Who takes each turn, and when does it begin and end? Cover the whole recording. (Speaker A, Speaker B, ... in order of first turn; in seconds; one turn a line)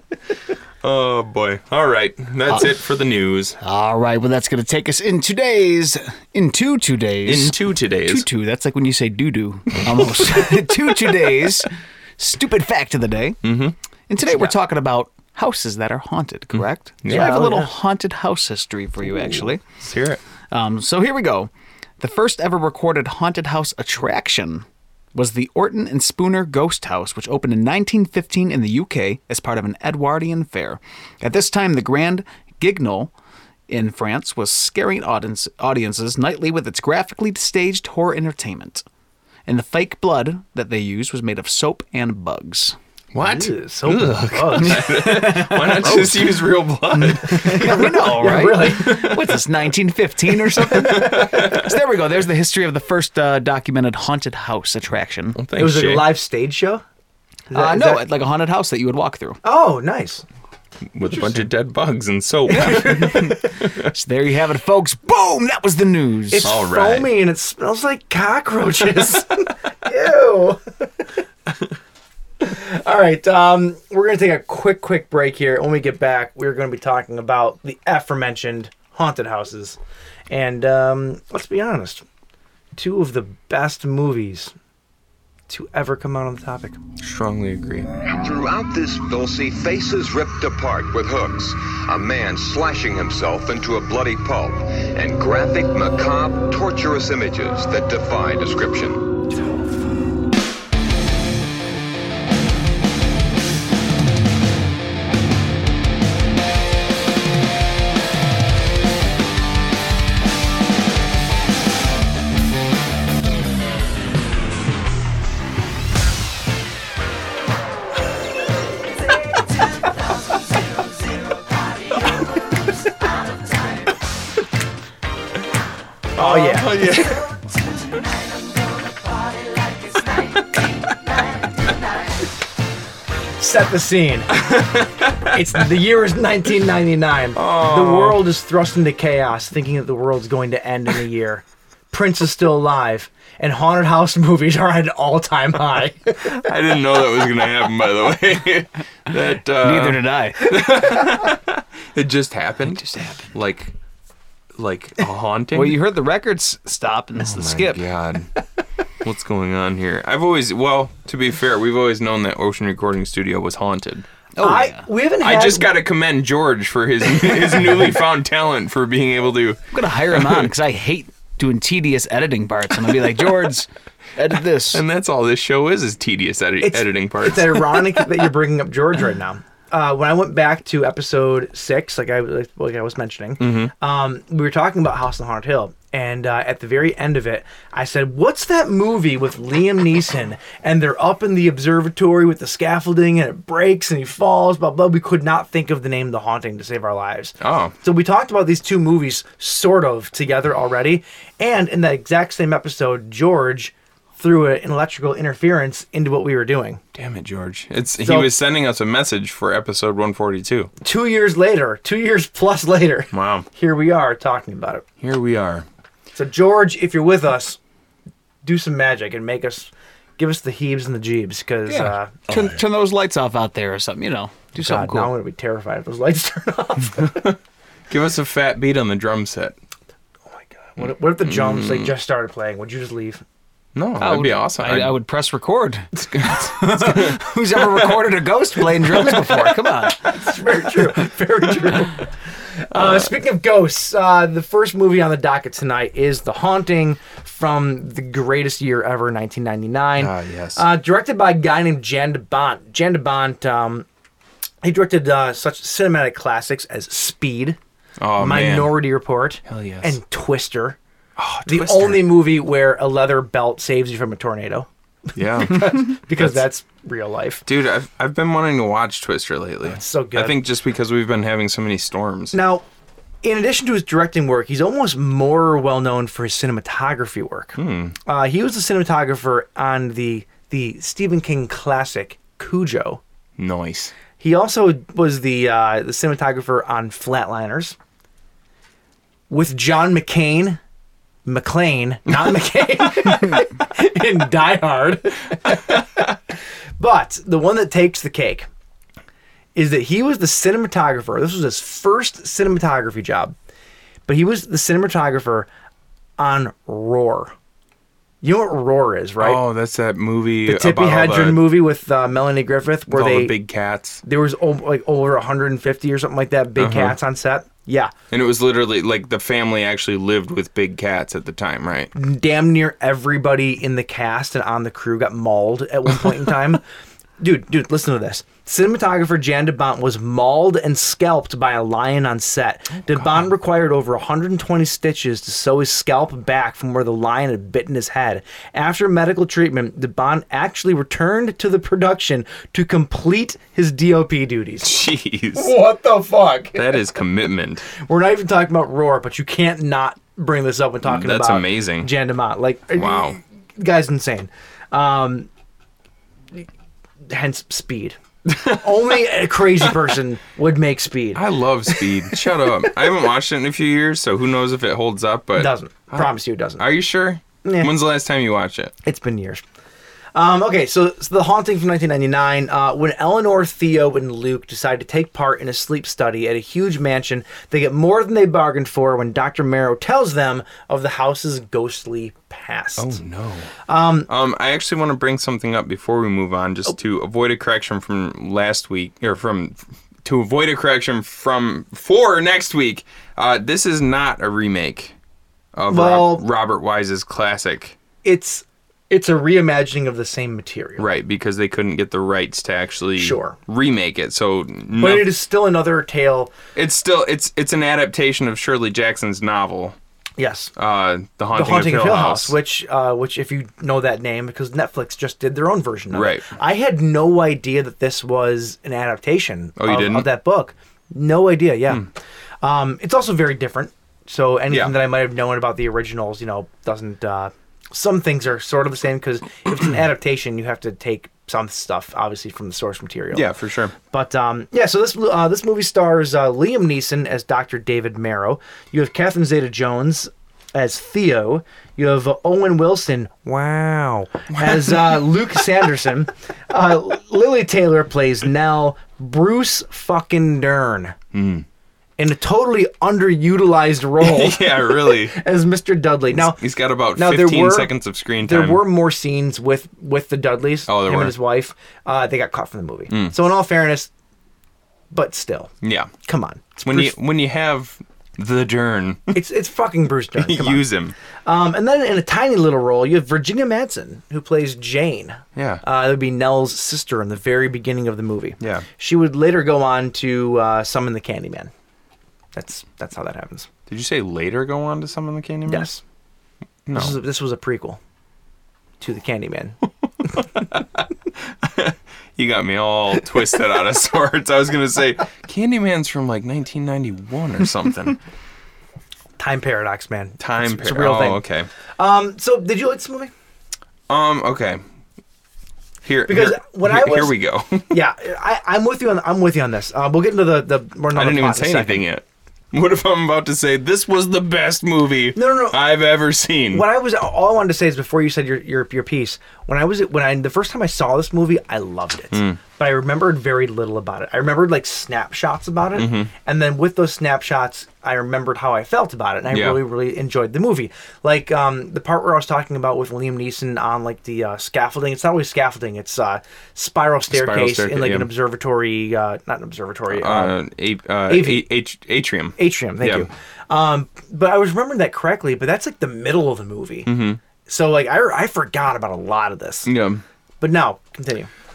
Speaker A: 0.8-3.6
Speaker B: 3.6-13.4
Speaker A: 7.2-8.3
Speaker A: 13.4-13.8
Speaker B: 14.1-19.6
Speaker A: 16.5-17.5
Speaker C: 17.1-17.7
Speaker A: 19.8-20.2
Speaker B: 20.5-33.1
Speaker B: 33.7-38.9
Speaker B: 39.5-42.8
Speaker A: 43.1-49.4
Speaker C: 43.2-44.9
Speaker B: 44.6-46.4
Speaker B: 46.9-55.4
Speaker C: 47.0-49.0
Speaker A: 50.6-51.7
Speaker A: 55.4-56.1
Speaker C: 55.6-56.8
Speaker C: 57.5-58.0
Speaker B: 57.5-59.4
Speaker C: 59.4-60.2
Speaker A: 61.0-63.9
Speaker C: 61.1-61.4
Speaker B: 62.5-66.5
Speaker C: 62.6-63.3
Speaker C: 66.3-70.6
Speaker A: 66.4-67.1
Speaker C: 72.4-79.8
Speaker C: 80.3-82.0
Speaker C: 82.8-84.5
Speaker C: 85.5-86.8
Speaker A: 87.0-87.9
Speaker D: 88.1-99.1
Speaker C: 126.2-127.2
Speaker A: 126.2-127.3
Speaker C: 133.4-134.5
Speaker A: 134.4-135.3
Speaker C: 135.2-146.4
Speaker A: 137.3-138.2
Speaker A: 146.2-153.7
Speaker B: 149.6-150.9
Speaker B: 152.7-153.2
Speaker A: 154.6-155.8
Speaker B: 155.5-157.8
Speaker A: 157.2-158.3
Speaker A: 159.0-164.1
Speaker B: 164.4-164.9
Speaker C: 164.4-165.7
Speaker A: 165.2-170.5
Speaker B: 169.7-174.8
Speaker A: 174.7-178.1
Speaker C: 176.6-206.8
Speaker A: 183.4-183.7
Speaker A: 197.4-197.8
Speaker A: 206.9-210.7
Speaker C: 208.0-208.3
Speaker C: 210.8-214.8
Speaker A: 213.1-213.5
Speaker A: 215.0-215.7
Speaker C: 216.2-217.6
Speaker C: 218.4-222.2
Speaker B: 221.7-225.1
Speaker A: 222.3-222.6
Speaker C: 224.6-227.3
Speaker A: 227.0-227.3
Speaker A: 227.9-229.6
Speaker C: 230.6-233.2
Speaker A: 230.8-231.9
Speaker A: 233.8-234.9
Speaker B: 234.0-240.3
Speaker A: 236.1-237.2
Speaker C: 240.1-242.1
Speaker C: 242.7-253.9
Speaker A: 242.7-243.1
Speaker A: 250.0-250.6
Speaker C: 254.6-257.6
Speaker A: 258.0-258.8
Speaker C: 258.2-260.8
Speaker A: 259.5-260.0
Speaker A: 261.2-262.1
Speaker C: 261.4-264.7
Speaker A: 265.1-266.4
Speaker C: 265.4-267.4
Speaker A: 267.5-272.4
Speaker C: 269.7-270.4
Speaker C: 272.3-272.6
Speaker C: 273.2-283.0
Speaker A: 277.6-278.0
Speaker A: 283.4-283.9
Speaker C: 284.2-287.8
Speaker C: 289.3-290.6
Speaker C: 291.3-296.1
Speaker C: 296.8-298.5
Speaker C: 299.6-303.4
Speaker C: 304.1-305.5
Speaker C: 306.2-307.3
Speaker C: 308.2-309.4
Speaker A: 309.2-311.5
Speaker C: 310.4-313.4
Speaker A: 312.9-314.0
Speaker C: 314.0-317.9
Speaker A: 316.6-317.0
Speaker A: 318.1-321.9
Speaker C: 321.9-326.6
Speaker C: 327.2-344.8
Speaker A: 332.9-333.3
Speaker A: 344.6-345.5
Speaker C: 345.3-346.8
Speaker A: 346.6-347.7
Speaker C: 347.8-355.3
Speaker A: 350.8-351.9
Speaker A: 352.8-353.2
Speaker C: 357.1-361.8
Speaker A: 358.3-358.6
Speaker A: 361.1-368.8
Speaker C: 365.4-366.7
Speaker C: 367.4-367.7
Speaker C: 368.9-369.4
Speaker C: 370.1-383.0
Speaker A: 382.8-383.5
Speaker C: 383.7-384.1
Speaker A: 384.1-394.9
Speaker A: 395.6-397.8
Speaker C: 395.7-396.2
Speaker C: 398.0-400.9
Speaker A: 400.8-405.1
Speaker C: 403.0-403.4
Speaker C: 404.8-406.3
Speaker A: 406.6-409.8
Speaker C: 410.2-410.5
Speaker A: 410.6-412.4
Speaker C: 411.3-421.9
Speaker A: 415.9-416.3
Speaker A: 419.6-420.1
Speaker C: 422.4-433.3
Speaker A: 424.5-424.8
Speaker A: 433.1-433.7
Speaker C: 433.9-451.0
Speaker A: 444.4-445.0
Speaker A: 451.1-451.5
Speaker C: 452.0-456.4
Speaker A: 454.0-455.2
Speaker A: 456.1-458.6
Speaker C: 456.9-463.9
Speaker A: 460.7-461.1
Speaker A: 462.9-463.2
Speaker C: 464.9-465.5
Speaker A: 465.6-465.9
Speaker C: 466.0-466.9
Speaker A: 466.6-469.1
Speaker C: 469.1-470.6
Speaker A: 470.2-470.9
Speaker C: 471.2-481.5
Speaker A: 475.4-475.6
Speaker A: 478.4-478.7
Speaker C: 482.4-483.5
Speaker A: 483.7-485.7
Speaker C: 485.5-485.8
Speaker A: 486.7-487.0
Speaker C: 486.7-487.8
Speaker C: 488.8-489.6
Speaker A: 490.1-490.8
Speaker A: 491.4-498.0
Speaker C: 499.2-501.2
Speaker A: 500.2-501.5
Speaker C: 501.8-503.1
Speaker A: 503.9-504.6
Speaker A: 505.8-507.7
Speaker C: 506.1-507.1
Speaker C: 507.7-511.8
Speaker A: 510.9-516.6
Speaker C: 515.1-515.6
Speaker C: 516.5-540.4
Speaker A: 522.1-522.4
Speaker A: 525.8-526.1
Speaker A: 529.3-529.6
Speaker A: 537.1-538.1
Speaker A: 539.9-543.1
Speaker C: 541.1-541.5
Speaker C: 542.4-546.9
Speaker A: 546.9-547.2
Speaker C: 547.5-549.7
Speaker A: 549.6-550.0
Speaker C: 550.4-551.3